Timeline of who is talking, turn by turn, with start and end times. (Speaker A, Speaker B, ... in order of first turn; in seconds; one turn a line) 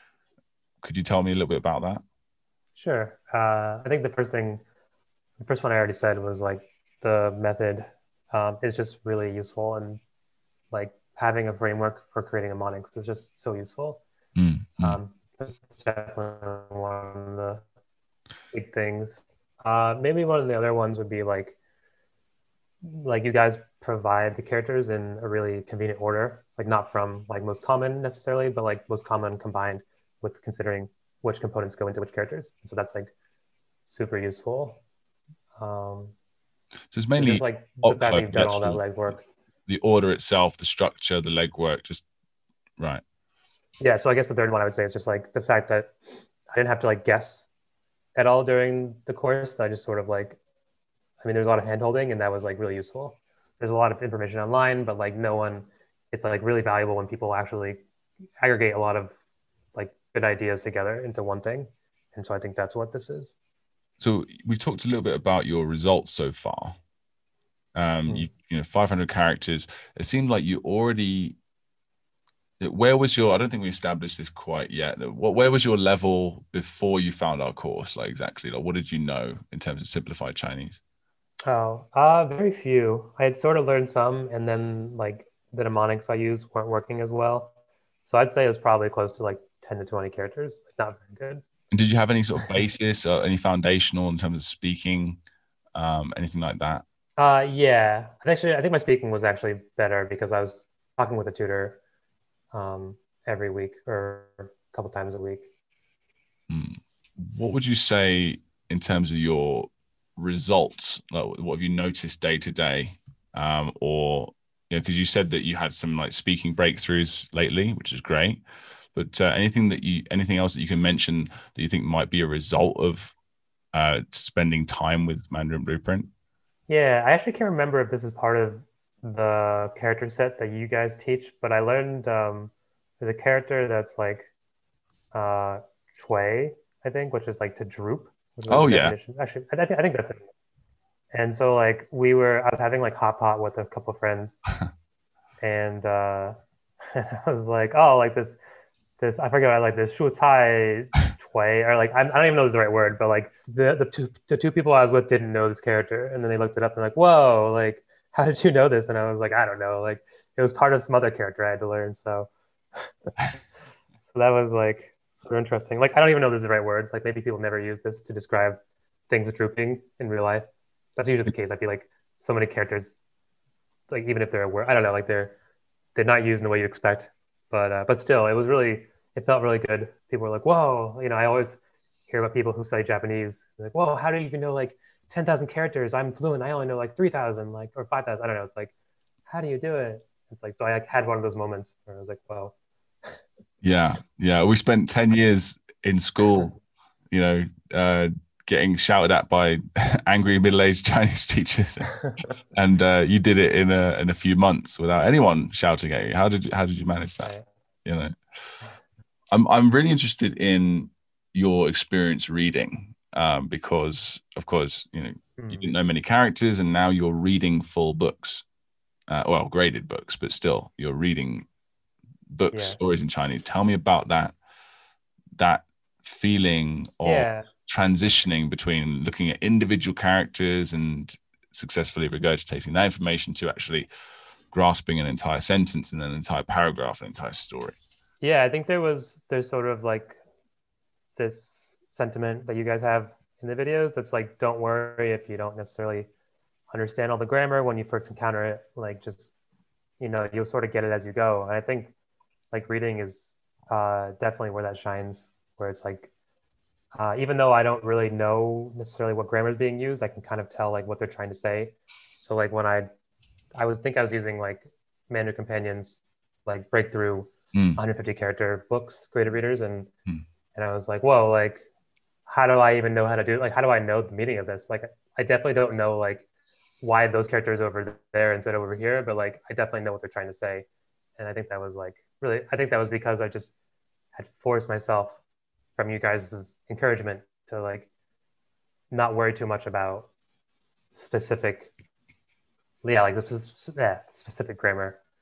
Speaker A: 0.8-2.0
Speaker B: 2.8-4.6
Speaker B: 5.4-10.0
Speaker B: 10.7-14.0
Speaker A: 14.3-15.0
Speaker B: 14.8-17.6
Speaker B: 18.5-21.6
Speaker B: 22.8-33.1
Speaker B: 33.9-34.8
Speaker B: 35.6-36.1
Speaker A: 36.9-38.8
Speaker B: 37.2-39.2
Speaker A: 39.7-42.0
Speaker B: 43.8-47.5
Speaker B: 48.1-50.4
Speaker B: 51.2-57.8
Speaker B: 58.4-59.1
Speaker B: 59.7-63.3
Speaker A: 64.0-66.8
Speaker A: 67.7-71.4
Speaker A: 72.6-80.8
Speaker B: 81.5-87.5
Speaker B: 88.1-91.4
Speaker A: 91.7-95.2
Speaker A: 95.7-96.8
Speaker B: 97.2-101.8
Speaker B: 102.5-105.5
Speaker A: 106.5-118.4
Speaker A: 118.9-123.1
Speaker A: 123.7-126.1
Speaker B: 126.7-134.3
Speaker B: 135.1-140.2
Speaker A: 138.5-138.9
Speaker B: 141.1-144.3
Speaker B: 145.4-148.4
Speaker B: 149.0-162.9
Speaker B: 164.1-173.0
Speaker B: 173.9-175.3
Speaker B: 175.9-188.7
Speaker B: 189.3-193.2
Speaker A: 193.6-196.6
Speaker A: 197.1-201.9
Speaker A: 202.5-208.2
Speaker A: 209.3-218.4
Speaker B: 215.4-215.7
Speaker A: 219.1-221.5
Speaker A: 222.3-224.3
Speaker B: 222.5-222.8
Speaker A: 225.4-233.9
Speaker B: 227.0-227.5
Speaker A: 234.5-237.8
Speaker B: 238.2-240.2
Speaker B: 241.2-246.1
Speaker B: 246.7-249.3
Speaker B: 250.0-251.9
Speaker B: 252.5-256.1
Speaker B: 256.9-262.9
Speaker B: 263.5-269.9
Speaker A: 267.5-267.8
Speaker B: 270.5-271.6
Speaker B: 272.3-276.2
Speaker B: 276.8-280.6
Speaker B: 281.2-283.5
Speaker B: 284.1-285.2
Speaker B: 285.8-287.9
Speaker B: 288.9-290.1
Speaker B: 290.9-291.7
Speaker B: 292.8-295.0